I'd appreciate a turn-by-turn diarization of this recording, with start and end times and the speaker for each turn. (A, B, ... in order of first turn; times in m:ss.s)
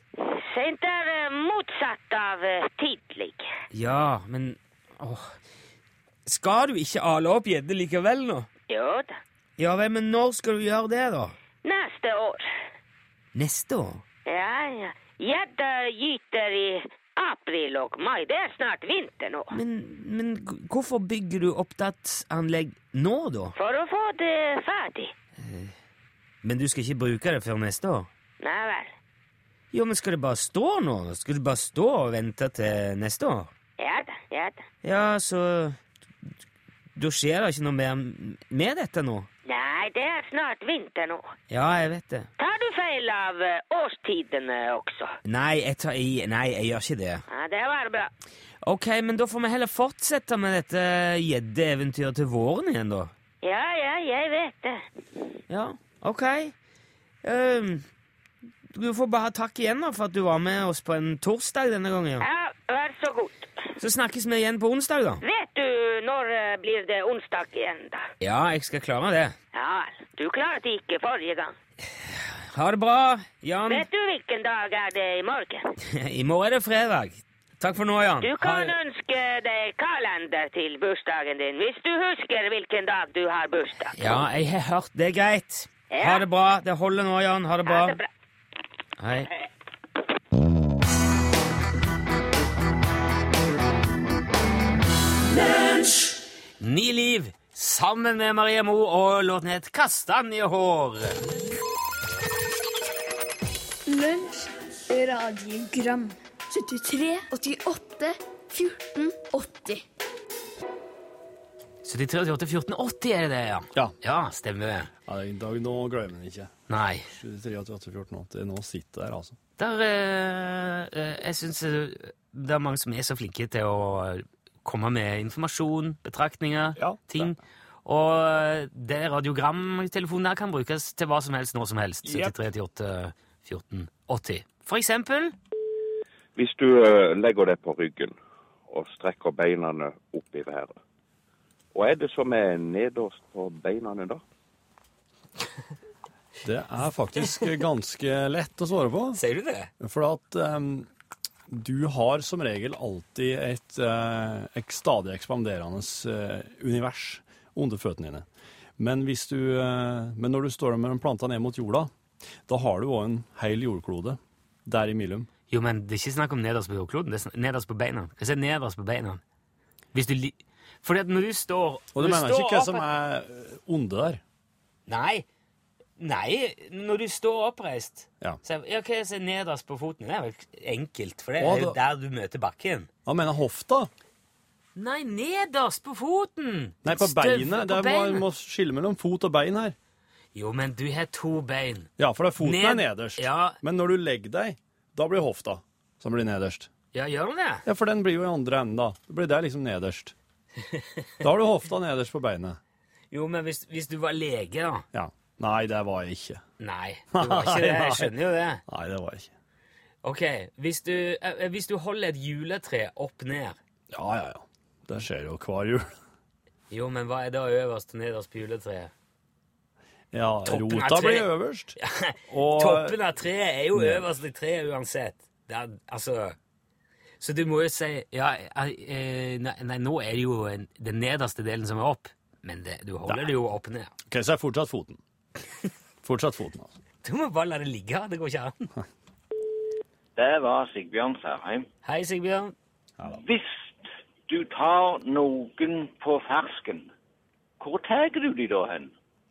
0:00.2-0:03.5 A
0:03.7-0:05.4 B
0:06.3-0:08.5 B
0:08.7-0:09.2 A
0:09.6-0:11.4 B
0:11.6-0:12.5 A
0:13.4-0:14.0 B
0:14.3-0:19.6 A
0:19.5-0:23.5 B
0:23.6-0:25.1 A
0:25.4-0:25.7 B
0:26.4-0:28.1 B
0:28.4-0:28.9 A
0:29.7-0:33.5 B
0:33.8-0:34.6 A
0:34.8-0:35.8 B
0:37.0-0:39.3 B
0:39.5-0:41.3 A
0:41.5-0:42.3 B
0:42.4-0:45.2 A
0:45.2-0:47.2 B
0:47.3-0:48.1 A
0:48.6-0:53.1 B
0:53.4-0:54.8 A
0:55.5-0:56.5 B
0:57.2-0:57.8 B
0:58.7-1:02.3 B
1:02.2-1:03.5 A
1:03.8-1:05.2 B
1:05.2-1:08.1 A
1:08.2-1:09.4 B
1:09.5-1:11.6 A
1:12.1-1:13.9 B
1:13.7-1:15.7 A
1:15.9-1:18.8 B
1:18.2-1:24.0 A
1:24.0-1:28.0 B
1:25.9-1:26.2 A
1:27.7-1:28.1 A
1:29.0-1:29.3 B
1:36.6-1:41.2 B
1:43.9-1:49.8 C
1:51.8-1:54.9 B
1:55.1-1:56.5 D
1:56.7-1:57.1 B
1:57.2-1:59.3 D
1:59.6-2:15.4 B
2:06.8-2:07.3 D
2:16.4-2:18.2 E
2:18.7-2:20.8 E
2:21.7-2:24.2 E
2:26.5-2:29.2 D
2:29.1-2:29.7 B
2:29.8-2:30.8 D
2:31.5-2:38.2 D
2:38.8-2:41.9 D
2:42.5-2:45.3 D
2:45.5-2:49.2 B
2:49.9-2:52.9 B
2:52.0-2:54.2 D
2:54.9-2:55.3 B
2:56.0-3:02.9 B
3:01.4-3:01.8 D
3:03.1-3:03.9 D
3:04.8-3:08.3 B
3:06.8-3:09.8 D
3:10.3-3:13.6 B
3:12.0-3:16.7 D
3:16.9-3:17.6 B
3:17.7-3:20.1 D
3:21.2-3:22.6 D
3:23.1-3:24.9 B
3:25.0-3:26.4 D
3:26.6-3:28.6 B
3:27.1-3:28.1 D
3:28.7-3:29.3 D
3:30.0-3:33.6 B
3:33.9-3:35.8 D
3:36.7-3:38.9 B
3:40.1-3:41.7 D
3:40.4-3:46.4 B
3:42.3-3:43.0 D
3:43.8-3:44.0 D
3:47.2-3:53.9 B
3:54.1-3:55.0 D
3:56.0-3:56.7 D
3:57.0-3:58.7 B
4:00.2-4:01.7 F
4:01.8-4:02.6 B
4:03.1-4:06.9 F
4:07.6-4:09.0 F